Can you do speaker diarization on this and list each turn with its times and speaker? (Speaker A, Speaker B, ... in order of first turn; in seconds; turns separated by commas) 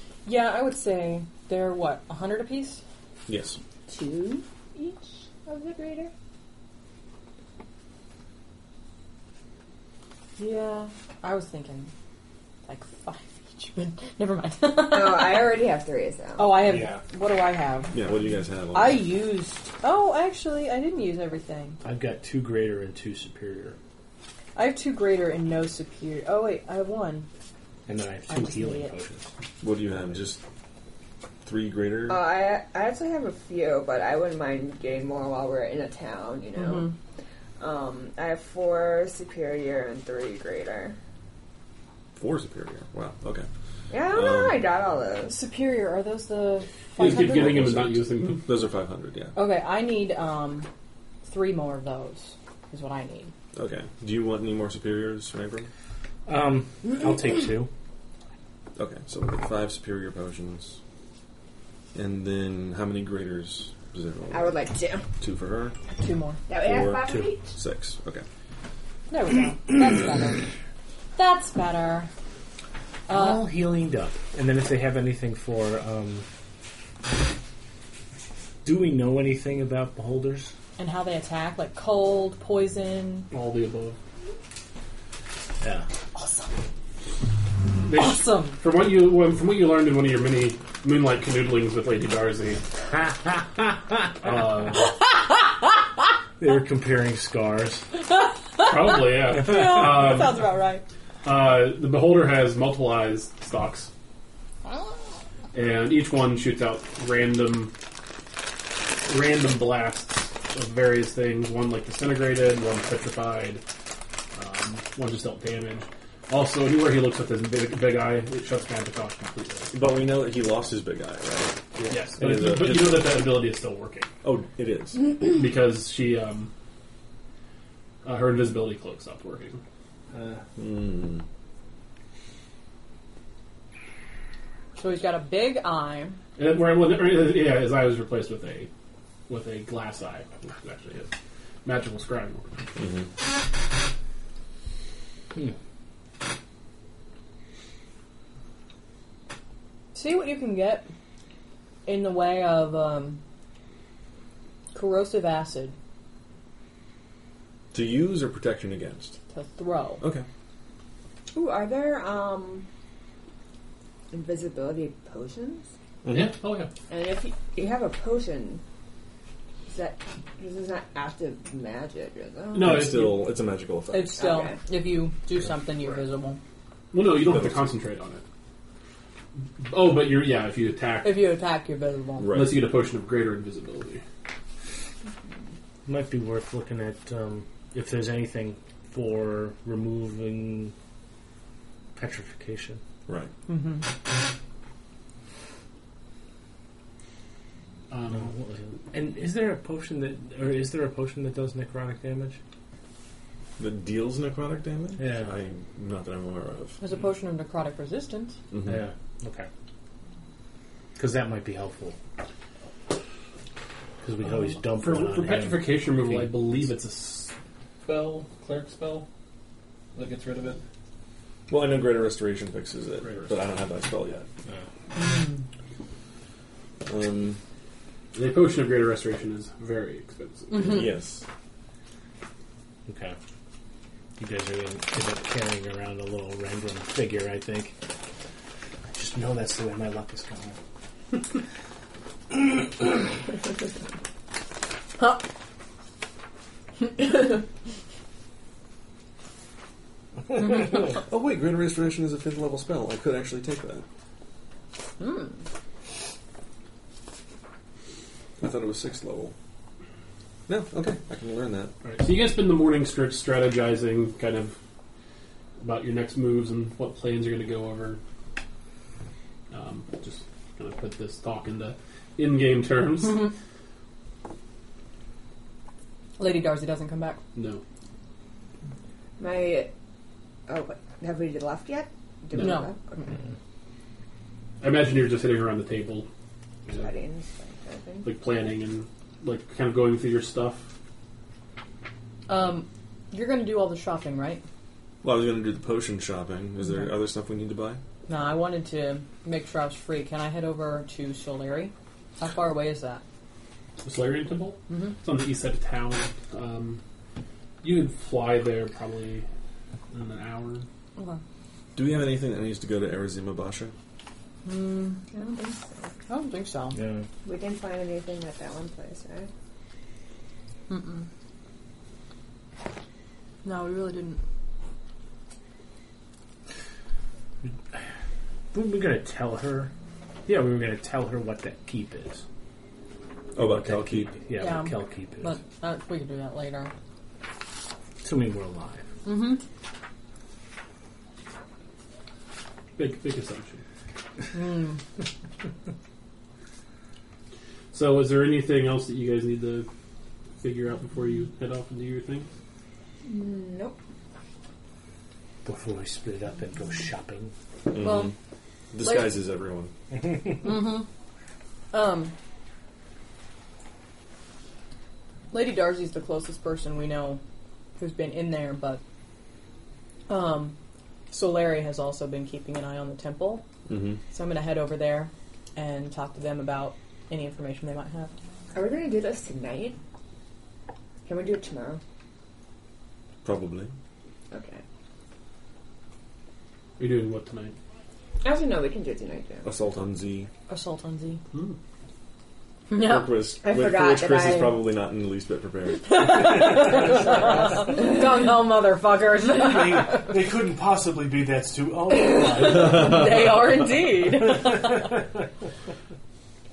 Speaker A: 0.2-2.8, Speaker B: 3.3-3.6, Speaker C: 3.9-6.1, Speaker A: 10.4-11.9, Speaker A: 12.7-15.5, Speaker C: 14.9-16.6, Speaker A: 16.4-17.9, Speaker D: 16.6-17.0, Speaker B: 17.9-19.1, Speaker A: 18.7-21.8, Speaker D: 21.8-23.8, Speaker A: 24.6-27.3, Speaker D: 27.9-29.3, Speaker A: 28.3-28.9, Speaker B: 29.6-30.4, Speaker B: 31.4-32.2, Speaker C: 32.1-36.9, Speaker A: 36.5-36.9, Speaker C: 37.6-41.0, Speaker B: 42.1-43.5, Speaker C: 43.9-45.4, Speaker B: 44.1-44.6, Speaker A: 45.3-47.6, Speaker E: 47.0-48.5, Speaker B: 47.0-49.4, Speaker A: 49.4-50.7, Speaker A: 51.2-53.3, Speaker B: 53.5-55.7, Speaker D: 56.3-57.7, Speaker B: 58.8-60.8, Speaker B: 61.9-64.6, Speaker C: 64.3-65.0, Speaker B: 65.2-65.7, Speaker A: 65.9-66.4, Speaker C: 66.5-67.5, Speaker B: 66.6-68.2, Speaker D: 67.0-67.3, Speaker A: 69.1-70.5, Speaker A: 71.2-72.1, Speaker A: 73.1-73.5, Speaker D: 73.1-76.2, Speaker D: 78.6-80.5, Speaker A: 80.8-83.3, Speaker E: 83.3-84.0, Speaker D: 85.6-85.8, Speaker A: 86.1-86.5, Speaker E: 87.8-92.6, Speaker A: 87.9-88.6, Speaker E: 94.2-94.9, Speaker D: 96.4-97.8, Speaker A: 98.2-100.8, Speaker E: 98.6-100.4, Speaker D: 99.6-99.8, Speaker E: 101.2-103.9, Speaker E: 105.5-107.7, Speaker E: 109.1-113.6, Speaker E: 114.3-119.8, Speaker B: 119.7-123.3, Speaker E: 121.9-124.1, Speaker B: 124.2-125.0, Speaker E: 125.2-126.5, Speaker E: 128.0-129.6, Speaker D: 130.1-130.4, Speaker B: 130.6-131.2, Speaker A: 134.8-136.2, Speaker E: 136.4-138.7, Speaker E: 139.3-141.1, Speaker E: 141.6-142.6, Speaker B: 142.8-143.1, Speaker A: 149.9-150.9, Speaker A: 151.8-153.2, Speaker A: 154.7-155.7, Speaker B: 157.7-159.2, Speaker A: 159.3-160.0, Speaker B: 160.0-160.2, Speaker C: 161.3-162.7, Speaker C: 164.1-165.7, Speaker B: 166.0-166.3, Speaker E: 166.1-166.7, Speaker C: 166.9-168.6, Speaker C: 169.7-172.9, Speaker E: 172.5-173.2, Speaker B: 172.6-174.2, Speaker A: 173.9-176.4, Speaker C: 174.2-174.6, Speaker E: 176.9-178.2, Speaker B: 177.2-177.7, Speaker E: 179.6-181.3, Speaker A: 181.0-182.3, Speaker B: 182.2-182.6, Speaker E: 182.3-184.0, Speaker D: 185.8-190.7, Speaker D: 191.9-192.8, Speaker A: 193.5-193.8, Speaker E: 197.9-198.3, Speaker D: 198.1-202.4, Speaker B: 203.6-206.8, Speaker D: 205.0-205.3, Speaker A: 206.8-208.4, Speaker B: 208.5-208.8, Speaker D: 208.6-209.5, Speaker D: 210.9-211.9, Speaker D: 214.0-216.4, Speaker E: 214.7-217.3, Speaker E: 217.8-219.1, Speaker E: 219.9-220.6, Speaker B: 221.5-224.2, Speaker E: 223.0-223.3, Speaker A: 224.9-225.4, Speaker B: 226.8-227.4, Speaker E: 228.1-230.8, Speaker A: 230.5-230.9, Speaker B: 230.6-231.2, Speaker D: 232.9-233.2, Speaker D: 234.2-237.8, Speaker D: 238.9-240.6, Speaker B: 250.4-253.8, Speaker A: 255.0-255.3, Speaker B: 258.4-259.3, Speaker B: 260.5-261.7, Speaker E: 261.8-264.6, Speaker E: 265.6-268.0, Speaker E: 269.5-273.3, Speaker A: 273.0-273.3, Speaker A: 276.2-277.2, Speaker E: 277.3-277.6, Speaker C: 279.2-279.7, Speaker C: 280.5-283.1, Speaker E: 282.3-282.6, Speaker A: 282.4-283.0, Speaker E: 284.6-286.1, Speaker C: 286.7-288.1, Speaker E: 288.0-290.7, Speaker A: 292.3-294.4, Speaker B: 295.0-297.8, Speaker A: 298.1-303.0, Speaker E: 303.8-306.8, Speaker A: 304.7-304.9, Speaker E: 307.6-309.2, Speaker E: 309.9-310.6, Speaker B: 311.8-313.7, Speaker A: 314.4-315.0, Speaker C: 315.1-315.9, Speaker A: 316.1-316.8, Speaker D: 316.7-317.1, Speaker C: 317.2-319.3, Speaker A: 320.7-321.1, Speaker A: 323.4-324.2, Speaker D: 328.5-329.7, Speaker D: 330.2-332.2, Speaker B: 333.3-334.1, Speaker D: 333.4-335.4, Speaker A: 334.4-336.7, Speaker D: 338.0-338.9, Speaker A: 339.0-339.4, Speaker E: 342.8-343.6, Speaker A: 344.3-344.8, Speaker E: 347.7-349.7, Speaker E: 350.4-352.3, Speaker C: 353.0-353.8, Speaker D: 355.4-357.3, Speaker B: 357.7-358.1, Speaker A: 357.8-358.1, Speaker B: 358.7-359.7, Speaker A: 358.8-359.1, Speaker D: 359.9-360.4, Speaker A: 360.4-360.9, Speaker A: 361.7-362.1, Speaker A: 365.3-367.2, Speaker A: 367.8-368.8, Speaker A: 370.1-370.6, Speaker A: 371.1-373.4, Speaker B: 373.7-374.0, Speaker A: 374.1-378.1, Speaker C: 378.5-379.8, Speaker C: 381.1-381.8, Speaker B: 383.2-383.7, Speaker C: 384.3-384.6, Speaker E: 386.8-387.5, Speaker C: 388.2-389.5, Speaker B: 389.4-390.3, Speaker A: 390.5-391.2, Speaker A: 392.7-393.1, Speaker B: 392.7-396.1, Speaker C: 393.4-394.6, Speaker A: 395.8-400.1, Speaker D: 399.4-403.1, Speaker A: 401.9-404.9